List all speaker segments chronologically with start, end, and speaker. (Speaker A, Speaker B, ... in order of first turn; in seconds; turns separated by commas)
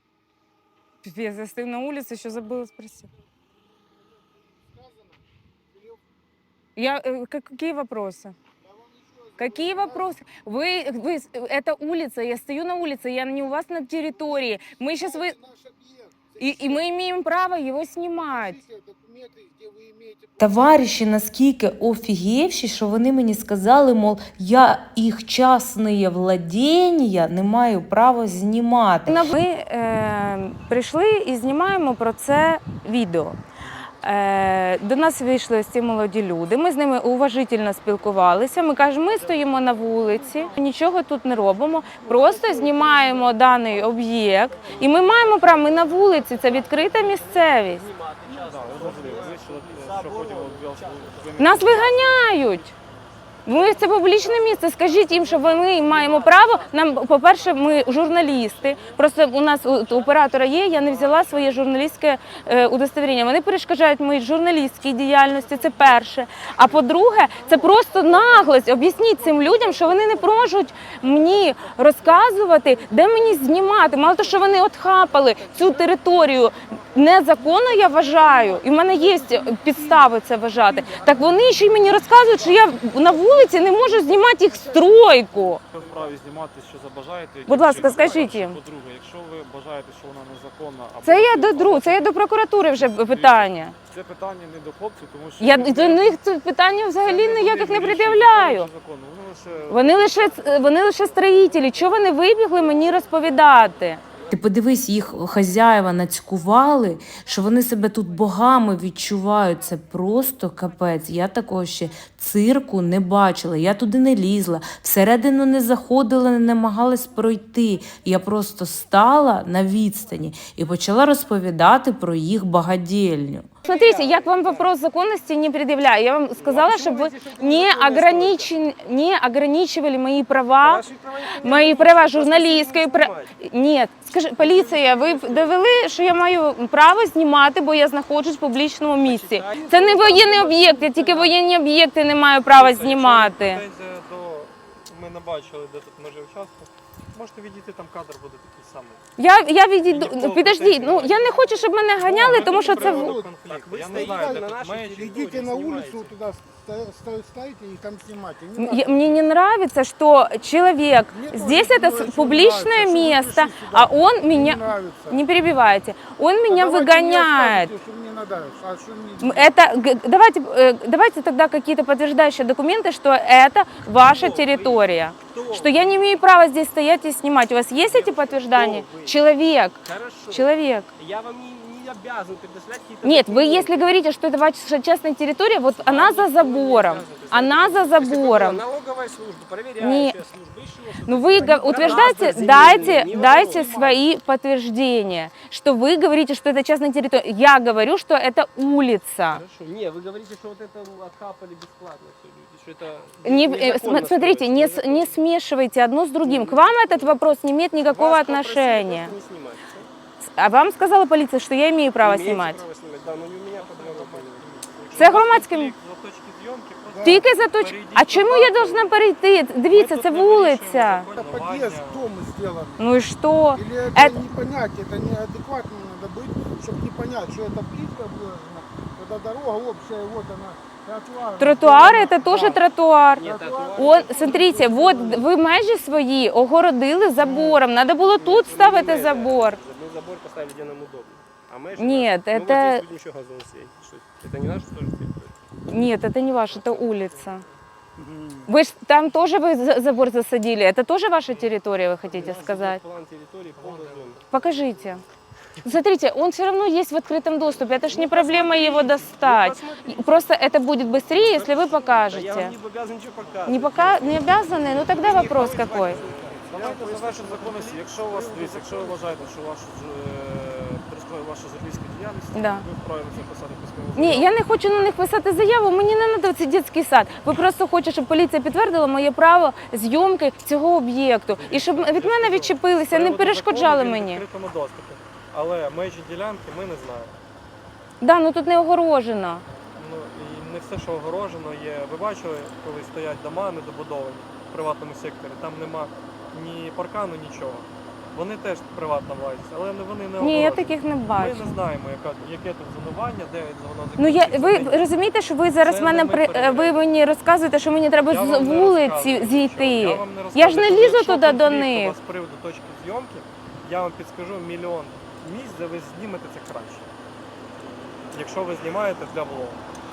Speaker A: 1.0-3.1, Speaker B: 4.8-5.1, Speaker A: 6.8-8.4, Speaker B: 8.7-10.0, Speaker A: 9.4-15.4, Speaker B: 15.0-16.8, Speaker A: 16.4-18.6, Speaker B: 18.2-20.5, Speaker C: 20.4-29.3, Speaker A: 29.1-33.4, Speaker A: 34.0-47.9, Speaker D: 39.3-39.7, Speaker D: 42.0-43.9, Speaker D: 44.5-51.9, Speaker E: 48.3-52.3, Speaker A: 51.4-52.8, Speaker A: 53.5-85.6, Speaker D: 53.6-59.0, Speaker D: 60.3-61.5, Speaker B: 69.4-70.3, Speaker B: 78.3-80.0, Speaker B: 83.4-84.1, Speaker E: 85.7-92.2, Speaker D: 85.7-86.1, Speaker A: 87.5-88.6, Speaker A: 91.0-93.8, Speaker E: 92.8-96.2, Speaker A: 95.4-98.7, Speaker E: 97.0-100.3, Speaker A: 99.7-104.0, Speaker D: 102.9-103.4, Speaker C: 104.3-123.5, Speaker D: 123.6-124.7, Speaker A: 123.6-143.6, Speaker D: 126.4-128.5, Speaker D: 130.6-133.3, Speaker D: 134.4-135.5, Speaker D: 139.0-141.3, Speaker F: 142.5-149.0, Speaker A: 149.2-153.2, Speaker F: 149.9-155.1, Speaker B: 152.1-153.3, Speaker D: 153.4-156.2, Speaker B: 153.9-159.2, Speaker A: 158.6-167.7, Speaker B: 161.1-165.2, Speaker B: 166.5-169.5, Speaker A: 169.2-180.9, Speaker D: 174.0-176.1, Speaker D: 177.8-179.2, Speaker D: 179.8-183.9, Speaker A: 183.0-188.6, Speaker D: 185.7-194.0, Speaker A: 189.8-190.2, Speaker A: 191.1-199.4, Speaker B: 191.5-193.9, Speaker D: 199.3-205.2, Speaker A: 203.2-209.1, Speaker D: 206.2-207.2, Speaker D: 207.9-209.9, Speaker A: 210.2-212.6, Speaker D: 212.0-215.1, Speaker F: 213.0-218.9, Speaker A: 214.9-215.7, Speaker B: 216.9-217.3, Speaker A: 217.0-221.1, Speaker F: 219.6-222.1, Speaker B: 221.2-222.8, Speaker A: 222.8-224.2, Speaker B: 223.5-232.6, Speaker A: 231.4-239.6, Speaker D: 233.2-234.5, Speaker B: 233.2-235.3, Speaker D: 237.2-237.6, Speaker D: 238.2-245.3, Speaker A: 241.8-242.8, Speaker A: 245.7-247.4, Speaker D: 246.5-247.5, Speaker A: 248.5-252.8, Speaker D: 252.1-254.3, Speaker E: 253.6-254.2, Speaker A: 254.3-255.0, Speaker A: 255.6-262.6, Speaker D: 257.8-260.3, Speaker D: 261.1-269.3, Speaker A: 263.5-266.0, Speaker E: 263.6-274.3, Speaker A: 272.3-272.7, Speaker A: 273.9-284.2, Speaker F: 281.3-287.2, Speaker A: 288.0-289.4, Speaker F: 289.7-304.8, Speaker A: 300.2-301.6, Speaker A: 304.0-311.9, Speaker F: 305.6-306.8, Speaker F: 308.1-316.9, Speaker F: 318.1-319.6